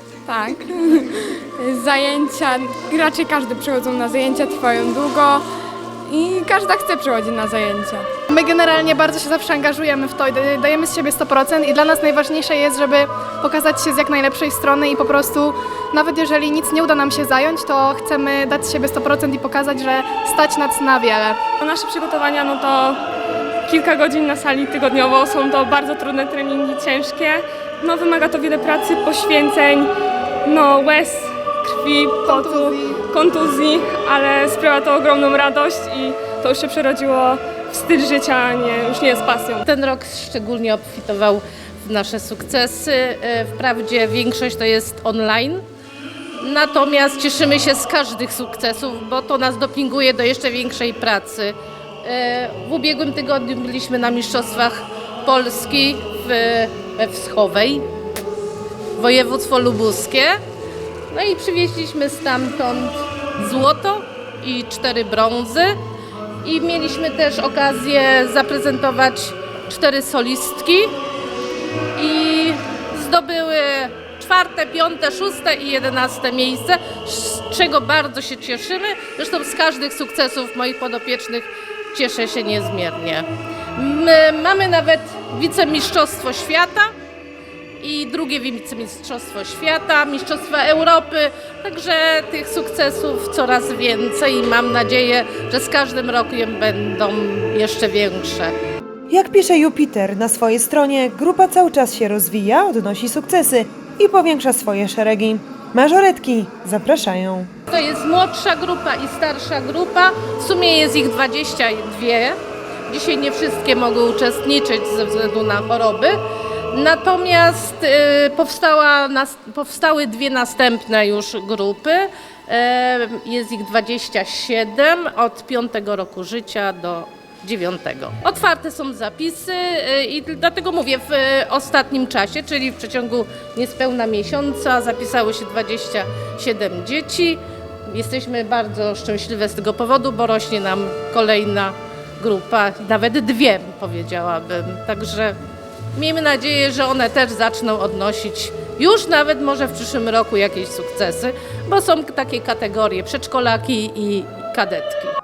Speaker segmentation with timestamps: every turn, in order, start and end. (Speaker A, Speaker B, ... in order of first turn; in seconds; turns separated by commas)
Speaker A: 0.3-5.5, Speaker A: 6.1-8.1, Speaker B: 8.3-21.4, Speaker C: 21.6-23.0, Speaker C: 23.7-29.9, Speaker C: 30.4-39.6, Speaker B: 32.2-32.9, Speaker D: 39.7-45.6, Speaker D: 46.4-57.9, Speaker D: 59.0-60.4, Speaker D: 61.1-65.7, Speaker D: 66.4-70.9, Speaker D: 72.0-86.9, Speaker D: 87.8-98.5, Speaker E: 99.1-107.5, Speaker D: 107.7-112.3, Speaker D: 112.9-116.2, Speaker D: 116.7-145.4, Speaker D: 146.0-155.2